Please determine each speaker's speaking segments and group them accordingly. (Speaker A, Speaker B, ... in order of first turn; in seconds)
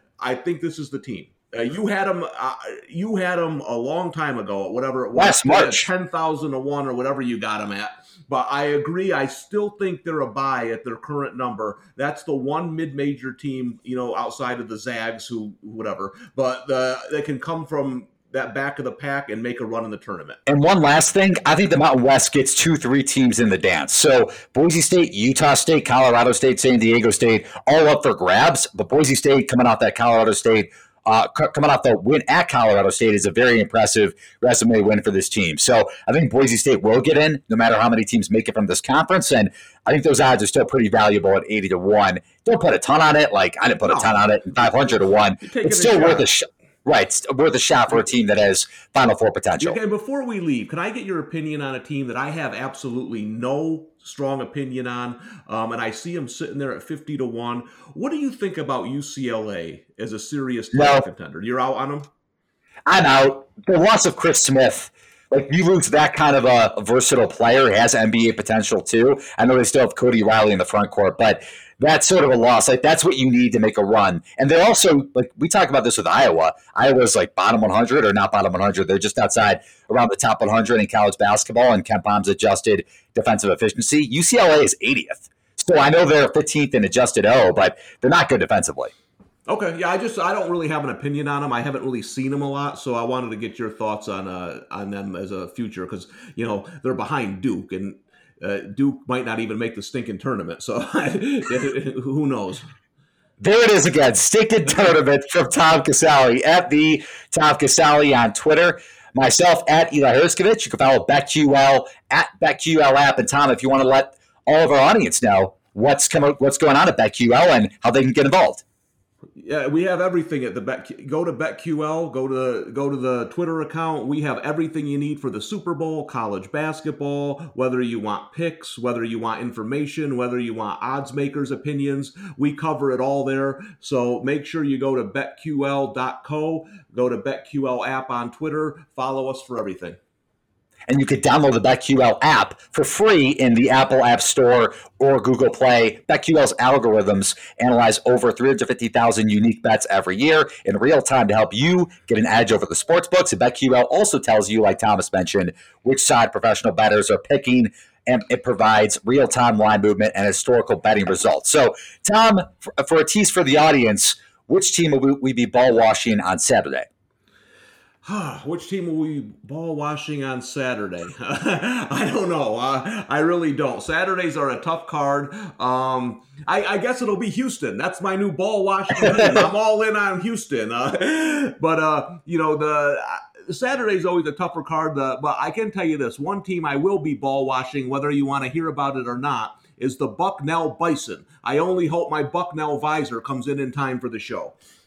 Speaker A: 0.2-20.4, 43.8-46.3, 49.6-62.1, 89.5-102.7, 119.3-140.0, 168.0-194.6
Speaker B: 5.2-5.9, 20.5-49.8, 60.7-61.0, 62.9-88.9, 103.4-118.6, 140.9-166.9, 179.0-179.3